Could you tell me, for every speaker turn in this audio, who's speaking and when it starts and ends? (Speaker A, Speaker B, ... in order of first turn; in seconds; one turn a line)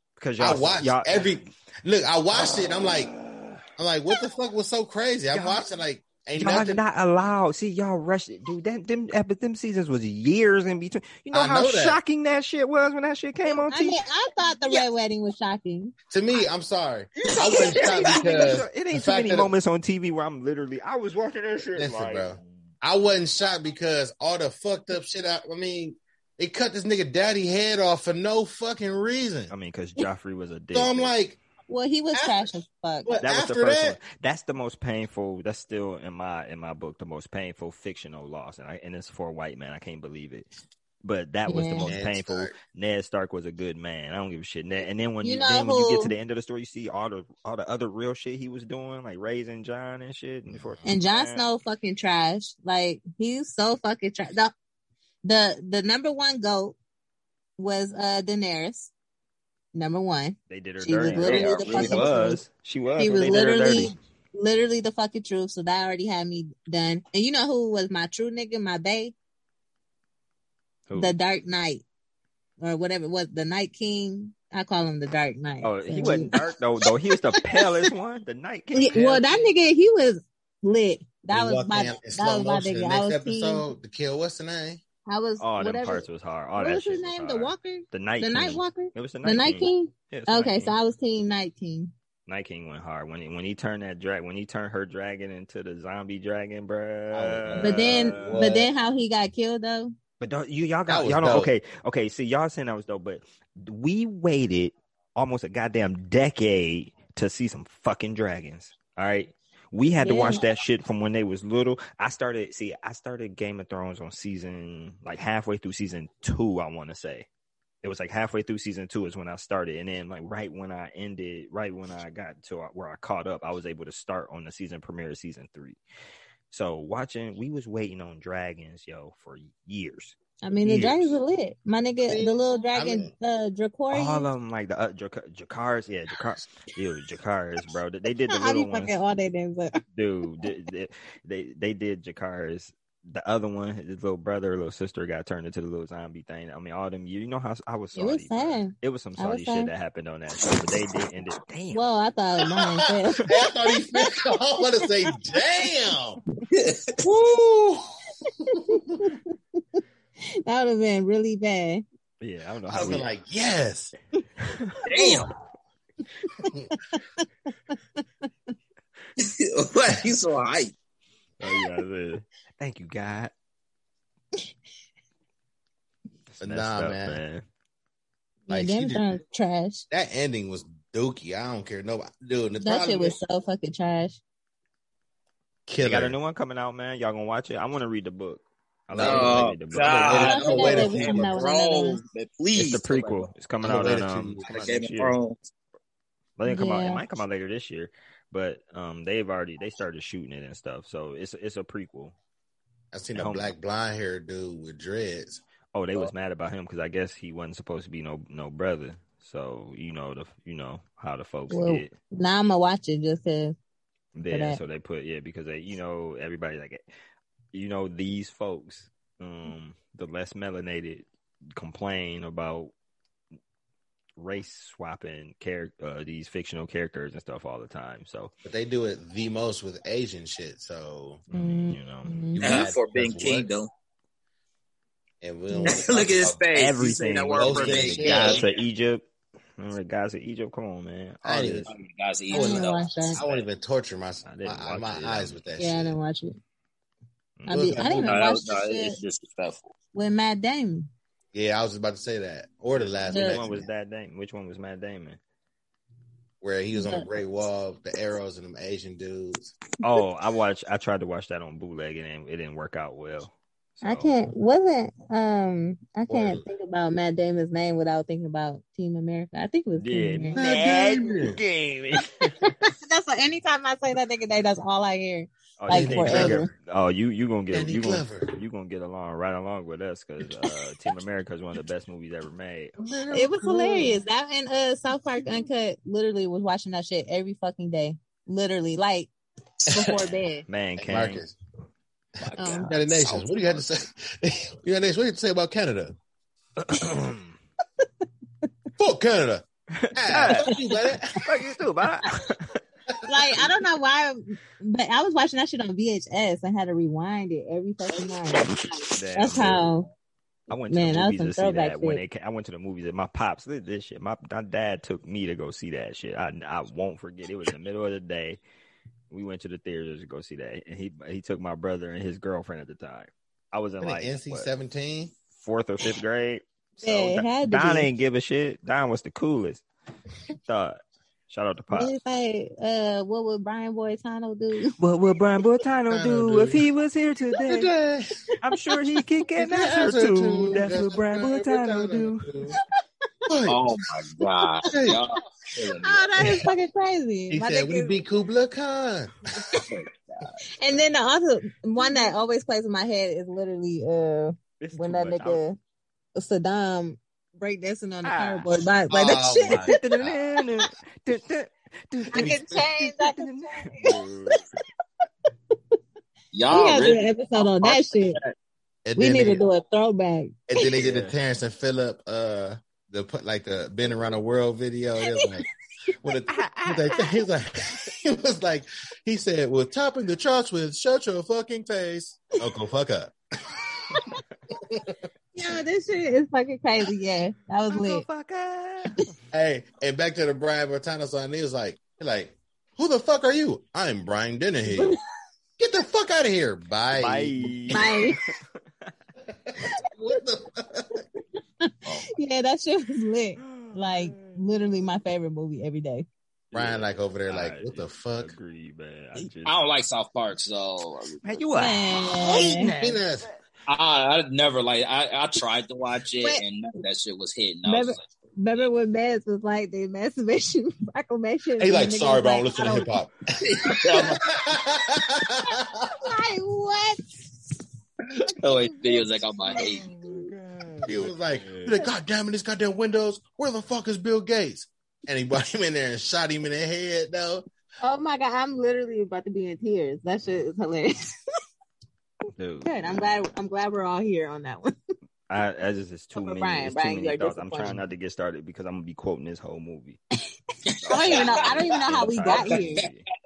Speaker A: 0.2-1.4
Speaker B: 0.4-3.1
Speaker A: 2.4-3.6
Speaker B: 3.8-6.8
Speaker A: 5.3-5.6
Speaker A: 6.4-14.0
Speaker B: 11.3-12.0
Speaker C: 13.5-15.9
Speaker B: 16.1-19.5
Speaker A: 17.3-22.4
Speaker D: 17.3-18.1
Speaker B: 21.7-29.5
Speaker A: 29.5-31.1
Speaker B: 30.7-31.4
Speaker C: 31.7-33.1
Speaker B: 32.1-32.5
Speaker B: 33.0-34.0
Speaker A: 33.2-40.5
Speaker A: 41.0-51.4
Speaker C: 41.5-41.9
Speaker B: 41.9-42.5
Speaker C: 45.2-46.1
Speaker B: 50.5-50.8
Speaker C: 50.8-54.5
Speaker C: 55.2-56.8
Speaker C: 57.6-58.9
Speaker C: 59.7-62.4
Speaker A: 60.5-63.9
Speaker D: 61.1-62.1
Speaker C: 63.0-69.1
Speaker A: 70.9-71.1
Speaker C: 70.9-71.8
Speaker C: 72.6-76.3
Speaker A: 75.6-79.5
Speaker C: 78.7-83.7
Speaker B: 81.3-84.8
Speaker C: 85.1-86.0
Speaker A: 85.4-90.8
Speaker C: 86.6-91.9
Speaker A: 92.3-98.4
Speaker B: 97.1-98.7
Speaker C: 97.6-99.9
Speaker A: 100.2-117.3
Speaker B: 100.9-101.5
Speaker C: 110.0-110.4
Speaker A: 117.8-125.8
Speaker A: 126.5-131.2
Speaker C: 130.4-134.3
Speaker B: 132.1-133.1
Speaker A: 133.9-138.9
Speaker C: 138.3-139.8
Speaker A: 139.9-151.8
Speaker C: 147.9-149.7
Speaker C: 151.7-153.3
Speaker B: 153.2-156.2
Speaker C: 153.9-154.3
Speaker D: 156.5-156.9
Speaker C: 157.0-157.4
Speaker B: 157.3-157.9
Speaker B: 158.5-159.1
Speaker C: 158.7-159.8
Speaker C: 160.4-161.8
Speaker A: 162.2-163.1
Speaker B: 162.7-163.9
Speaker A: 164.4-164.8
Speaker D: 164.8-165.3
Speaker C: 164.9-165.2
Speaker C: 166.9-168.0
Speaker D: 169.2-170.7
Speaker A: 171.4-173.3
Speaker A: 176.4-177.4
Speaker B: 176.4-177.2
Speaker C: 178.5-179.8
Speaker B: 178.5-179.1
Speaker B: 179.9-183.2
Speaker C: 182.6-184.2
Speaker B: 185.7-186.2
Speaker A: 185.8-190.4
Speaker B: 188.9-191.4
Speaker D: 189.0-193.3
Speaker C: 190.1-192.0
Speaker A: 192.6-195.2
Speaker B: 193.6-194.5
Speaker D: 194.5-195.4
Speaker A: 196.4-202.1
Speaker C: 196.4-197.0
Speaker B: 202.9-205.4
Speaker A: 203.1-203.5
Speaker A: 205.7-211.9
Speaker C: 211.5-213.6
Speaker A: 214.1-216.8
Speaker C: 214.3-214.6
Speaker A: 217.5-222.7
Speaker A: 224.2-228.3
Speaker B: 228.4-231.2
Speaker A: 231.3-232.2
Speaker C: 231.3-232.5
Speaker B: 232.3-233.5
Speaker D: 232.4-233.7
Speaker B: 235.2-236.4
Speaker C: 235.5-235.8
Speaker D: 235.7-238.5
Speaker A: 236.5-239.1
Speaker B: 237.3-238.4
Speaker A: 239.6-241.7
Speaker B: 241.2-241.7
Speaker D: 241.7-243.4
Speaker C: 242.3-243.2
Speaker B: 243.2-246.0
Speaker A: 244.2-245.4
Speaker C: 245.6-246.4
Speaker A: 247.4-247.7
Speaker C: 247.5-249.0
Speaker B: 247.5-248.2
Speaker D: 248.0-249.7
Speaker C: 249.9-250.9
Speaker B: 251.3-253.7
Speaker A: 252.9-255.2
Speaker C: 253.1-253.4
Speaker B: 256.4-259.5
Speaker C: 256.7-257.1
Speaker A: 259.8-264.1
Speaker C: 263.8-270.4
Speaker B: 266.1-266.4
Speaker A: 269.7-272.4
Speaker B: 270.4-271.4
Speaker C: 272.4-276.5
Speaker A: 275.6-282.7
Speaker B: 275.7-276.4
Speaker B: 277.5-278.3
Speaker B: 282.8-284.0
Speaker C: 283.1-289.1
Speaker C: 289.7-290.4
Speaker A: 290.4-291.2
Speaker B: 290.8-291.4
Speaker B: 292.2-295.9
Speaker D: 292.2-292.7
Speaker C: 292.4-292.8
Speaker A: 296.6-297.3
Speaker B: 298.8-301.2
Speaker A: 299.7-300.5
Speaker A: 301.2-302.6
Speaker B: 302.9-303.6
Speaker C: 303.1-309.9
Speaker A: 308.9-309.7
Speaker A: 310.5-318.4
Speaker C: 310.7-312.0
Speaker A: 319.1-324.5
Speaker B: 323.8-325.1
Speaker A: 325.4-329.6
Speaker C: 326.8-327.9
Speaker A: 330.5-331.9
Speaker C: 331.7-334.8
Speaker A: 334.8-337.7
Speaker B: 335.9-336.7
Speaker B: 337.4-338.2
Speaker A: 338.4-342.2
Speaker B: 339.4-342.6
Speaker B: 343.3-343.7
Speaker D: 343.5-346.4
Speaker C: 344.6-344.9
Speaker B: 344.7-345.0
Speaker C: 345.8-348.0
Speaker B: 346.2-346.5
Speaker B: 347.3-349.1
Speaker D: 349.7-350.4
Speaker C: 350.5-355.6
Speaker A: 354.6-355.4
Speaker C: 356.1-359.7
Speaker A: 358.0-358.5
Speaker B: 358.9-360.2
Speaker A: 359.4-364.5
Speaker B: 362.1-362.7
Speaker C: 362.1-363.9
Speaker D: 366.3-368.3
Speaker C: 366.5-368.2
Speaker B: 368.8-369.4
Speaker C: 368.9-370.8
Speaker B: 370.5-375.4
Speaker A: 370.8-371.1
Speaker B: 376.0-383.1
Speaker A: 376.3-377.0
Speaker C: 383.9-384.2
Speaker C: 385.3-388.1
Speaker A: 387.7-389.1
Speaker B: 389.3-394.9
Speaker B: 395.6-397.9
Speaker A: 396.9-398.9
Speaker C: 397.7-398.2
Speaker B: 399.3-401.0
Speaker C: 401.6-406.1
Speaker A: 403.4-404.4
Speaker A: 406.5-409.6
Speaker B: 406.5-408.3
Speaker D: 409.4-411.4
Speaker A: 411.2-413.4
Speaker C: 411.6-412.7
Speaker B: 412.8-413.3
Speaker D: 413.7-418.1
Speaker C: 417.6-422.9
Speaker B: 421.6-426.1
Speaker D: 423.4-424.2
Speaker C: 425.5-427.0
Speaker D: 428.1-430.3
Speaker C: 428.5-430.1
Speaker A: 429.5-431.8
Speaker B: 430.8-437.4
Speaker C: 437.8-440.9
Speaker A: 442.4-443.3
Speaker C: 442.6-444.7
Speaker A: 445.3-450.0
Speaker C: 446.2-447.9
Speaker D: 450.8-452.9
Speaker C: 450.9-452.9
Speaker A: 450.9-453.0